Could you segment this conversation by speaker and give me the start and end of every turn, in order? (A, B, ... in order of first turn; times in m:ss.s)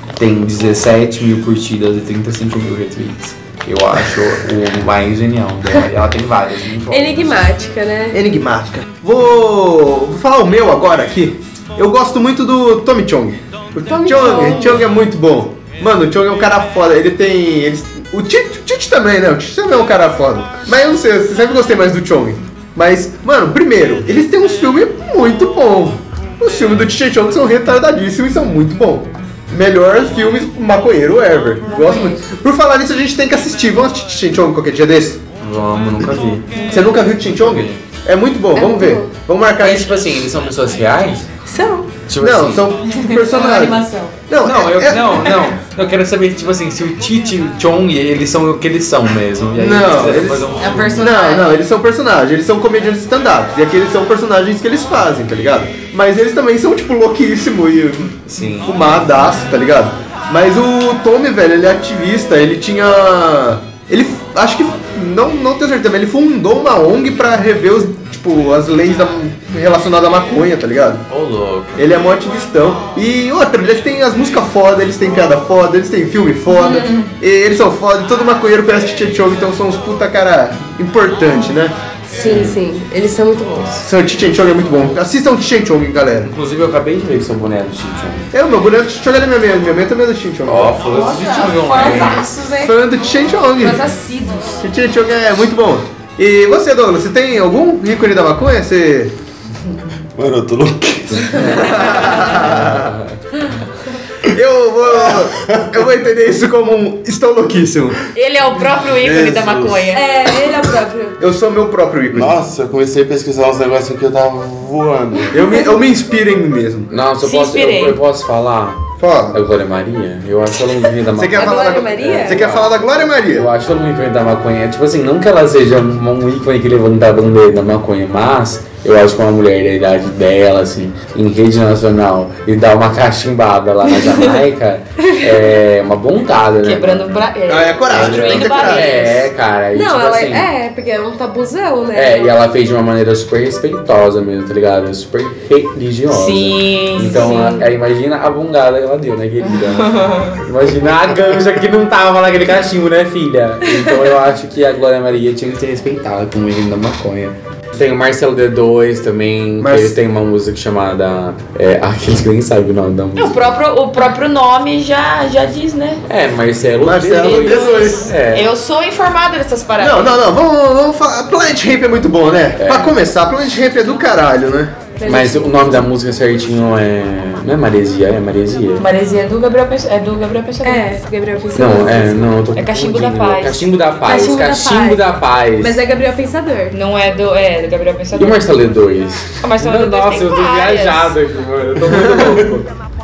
0:00.2-0:07.4 A
0:06.9-0:08.2 B
0:08.1-0:35.2 C
0:13.9-0:14.8 B
0:31.7-0:32.2 D
0:35.4-0:37.8 A
0:36.6-0:36.9 D
0:36.7-0:40.0 C
0:38.6-0:39.1 B
0:39.6-0:41.3 A
0:41.4-0:41.9 B
0:42.1-0:42.6 A
0:42.2-0:45.4 C
0:42.9-0:44.2 D
0:44.4-0:51.1 A
0:49.6-1:11.0 C
0:50.6-0:51.5 D
0:58.3-0:58.8 A
1:11.1-1:11.8 A
1:11.8-1:21.8 C
1:16.5-1:17.1 D
1:22.1-1:23.8 B
1:22.2-1:22.6 A
1:23.8-1:26.3 C
1:26.2-1:28.3 A
1:28.3-1:30.8 C
1:30.4-1:32.3 A
1:30.8-1:32.7 D
1:32.6-1:33.9 C
1:33.6-1:34.6 D
1:34.6-1:39.1 C
1:40.1-1:41.7 E
1:41.4-1:42.3 D
1:41.6-1:42.9 C
1:42.5-1:43.0 A
1:44.3-1:48.0 C
1:45.1-1:45.6 E
1:48.1-1:50.0 D
1:48.8-1:49.9 E
1:49.9-1:51.2 B
1:51.2-1:52.3 C
1:52.1-1:55.3 E
1:55.3-1:56.9 C
1:56.9-2:02.8 A
1:57.2-1:58.0 D
1:59.0-1:59.4 C
2:01.1-2:03.5 C
2:01.3-2:02.4 B
2:03.3-2:17.2 A
2:16.6-2:19.2 D
2:17.5-2:19.0 C
2:17.9-2:20.5 A
2:19.7-2:22.4 B
2:21.9-2:43.4 A
2:26.1-2:27.6 D
2:29.6-2:30.4 D
2:39.6-2:40.0 C
2:43.2-2:46.0 D
2:46.1-2:48.5 A
2:46.8-2:48.1 C
2:47.2-2:50.2 D
2:49.8-2:54.8 C
2:52.6-2:53.0 A
2:55.0-2:55.9 B
2:55.0-2:58.8 A
2:58.8-3:00.8 D
3:00.6-3:02.3 B
3:01.5-3:05.8 A
3:02.6-3:03.7 D
3:04.0-3:05.0 B
3:05.6-3:06.7 B
3:06.7-3:08.4 D
3:08.1-3:12.7 A
3:09.4-3:11.2 D
3:11.9-3:12.4 C